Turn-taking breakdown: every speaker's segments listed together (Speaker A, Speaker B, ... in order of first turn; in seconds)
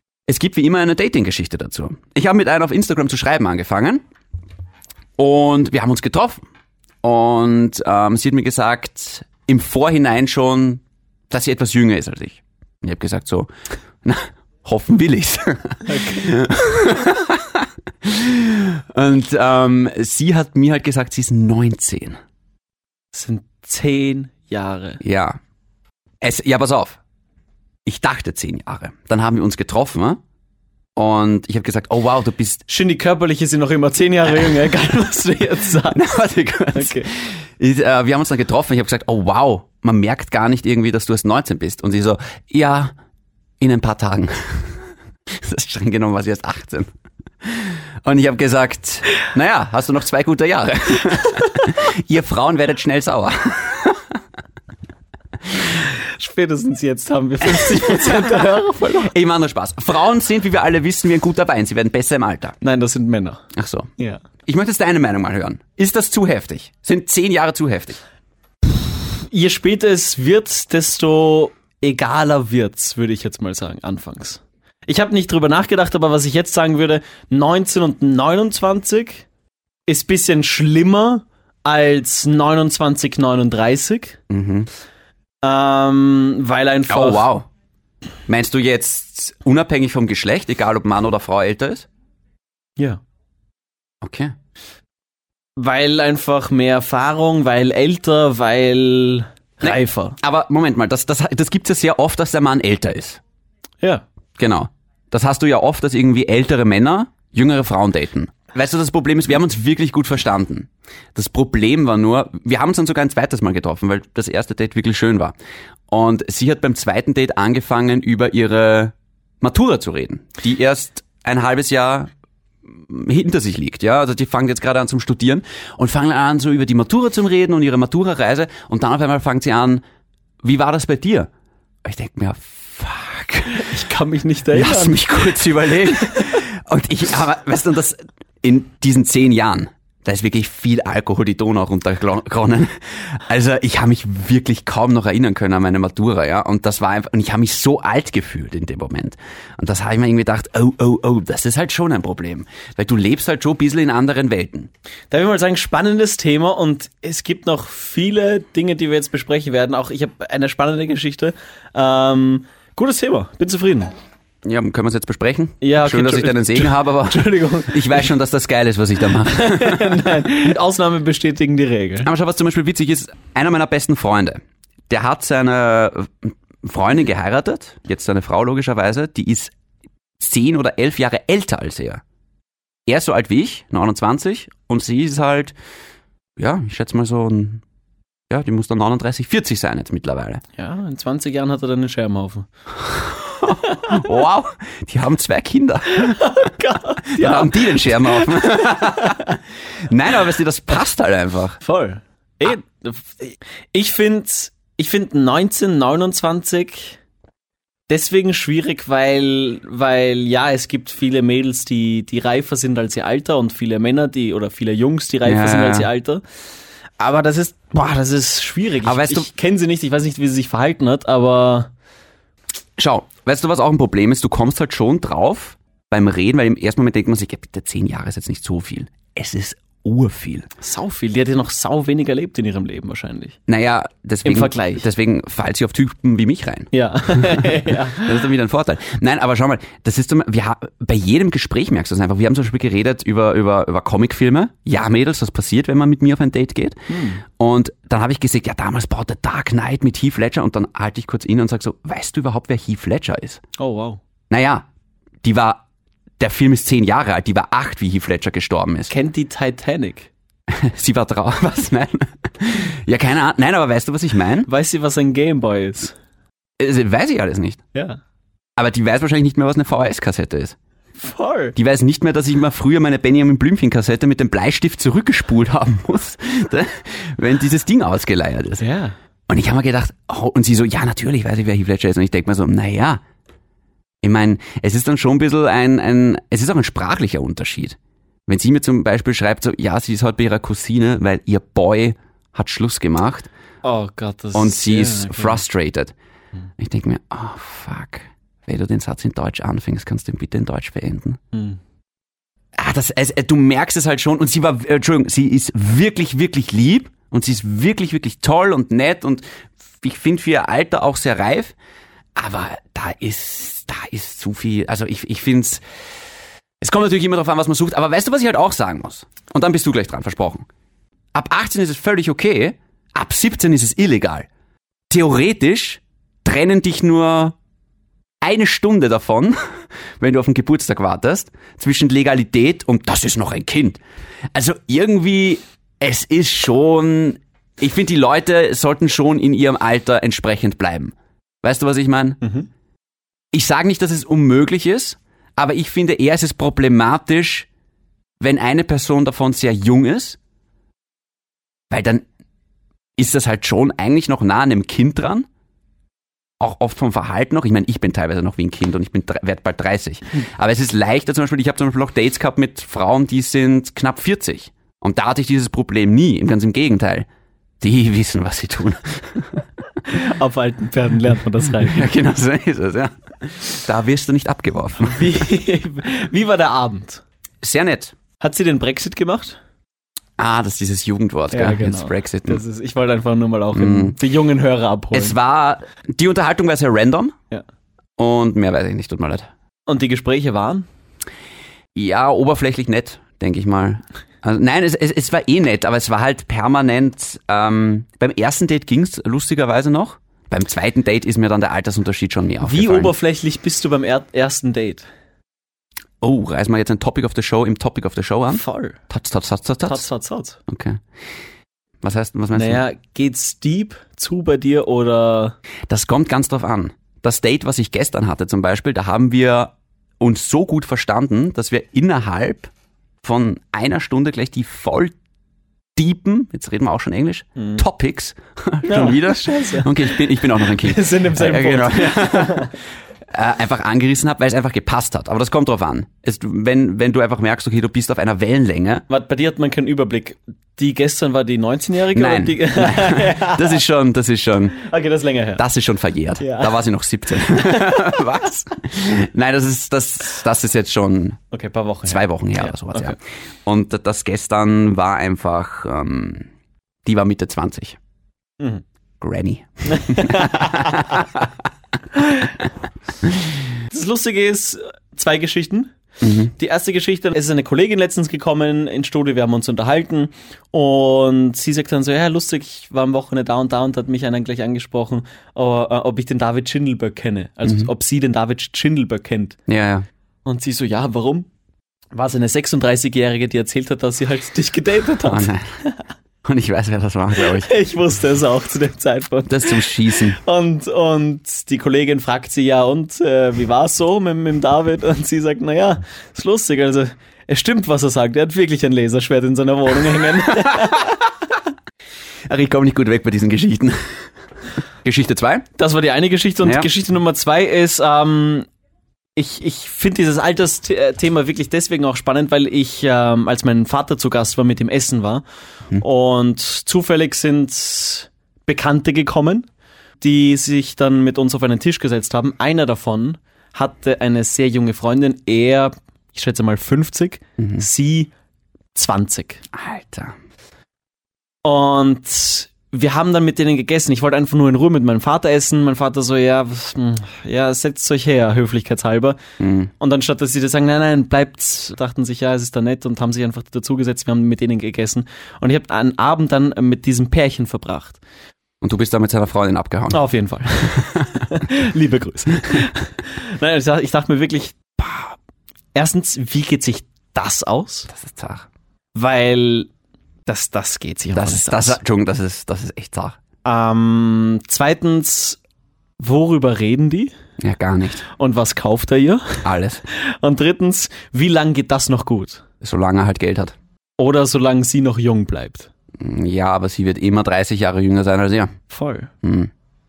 Speaker A: 0.3-4.0, 5.2-6.4, 7.0-13.5, 14.0-22.2, 25.0-25.4, 26.2-27.0, 27.8-30.2, 30.9-32.6, 35.9-42.9, 43.6-44.7, 45.3-46.9, 47.4-54.0, 57.6-58.2, 58.9-62.6, 63.5-63.9, 64.5-68.0, 84.3-84.7, 86.9-87.5, 88.3-91.9, 94.0-94.3, 99.6-103.2, 104.4-115.3, 115.9-122.1, 122.7-129.8, 130.4-131.3, 131.8-133.7, 134.5-154.7, 164.4-170.2, 172.0-179.5, 180.2-182.0, 182.9-185.5, 186.4-187.6, 188.3-190.4, 192.8-196.5, 197.1-201.6, 215.2-215.9, 218.8-219.3, 222.8-230.5, 233.5-253.4, 254.3-254.7, 255.2-255.6, 256.2-258.9, 260.5-264.5, 266.6-267.6, 268.6-270.6, 271.6-278.6, 279.3-283.0, 284.0-287.8, 288.3-293.3, 294.3-295.9, 296.6-301.2, 302.6-309.2, 309.8-311.5, 312.1-315.6, 316.6-320.4, 321.1-324.3, 324.9-327.3, 328.2-329.4, 330.0-333.8, 334.3-342.2, 343.3-347.5, 348.2-350.2, 351.7-352.0, 353.0-355.2, 356.4-367.1, 367.6-369.4, 371.6-375.0, 377.4-377.9, 380.2-382.4, 383.5-383.9, 384.9-387.1, 388.0-389.3, 391.7-402.9, 406.0-409.8, 410.5-410.8, 411.8-412.6, 415.7-422.5, 423.0-424.9, 425.8-432.5, 433.1-438.8, 441.9-444.6, 445.4-451.2, 451.8-456.3, 456.8-457.8, 459.0-461.3, 466.0-466.3, 479.5-479.8, 485.0-485.4, 486.2-487.5, 489.3-490.2, 502.3-503.8, 504.8-505.4, 506.4-506.7, 529.5-530.1, 539.4-539.7, 548.6-550.0, 557.9-558.5, 561.1-563.2, 567.4-568.0, 569.4-569.8, 572.6-573.5, 576.0-578.5, 579.2-579.5
Speaker B: 15.9-16.2, 23.1-25.0, 32.7-36.0, 36.7-37.1, 55.7-59.1, 62.6-63.4, 64.0-64.2, 68.7-79.2, 79.9-84.2, 85.4-87.3, 95.6-100.2, 133.5-135.1, 155.1-163.9, 165.6-168.1, 169.2-172.1, 190.6-192.4, 193.8-194.1, 195.9-199.2, 201.6-207.0, 207.9-216.2, 217.0-221.7, 230.6-233.4, 234.2-234.8, 236.7-238.3, 246.9-247.2, 253.6-254.0, 258.9-260.1, 264.5-265.9, 267.7-268.0, 271.0-271.6, 278.6-278.9, 293.6-295.4, 301.3-301.6, 342.2-342.5, 369.9-371.9, 374.8-377.0, 378.2-379.4, 381.3-385.1, 389.7-390.6, 402.4-404.9, 408.3-408.8, 409.7-410.4, 412.3-415.3, 427.4-427.6, 428.7-432.5, 438.9-443.6, 444.6-445.4, 446.2-446.6, 447.2-448.0, 451.3-452.9, 459.7-460.9, 463.7-465.7, 466.4-479.4, 480.2-481.3, 481.9-485.7, 487.1-501.0, 505.6-508.4, 509.1-515.2, 515.8-519.5, 520.0-528.1, 528.7-529.4, 531.4-539.2, 539.8-548.0, 549.9-554.6, 555.7-557.9, 558.9-559.7, 560.3-561.8, 563.4-565.4, 566.0-567.1, 568.1-572.4, 574.0-575.7, 578.7-579.1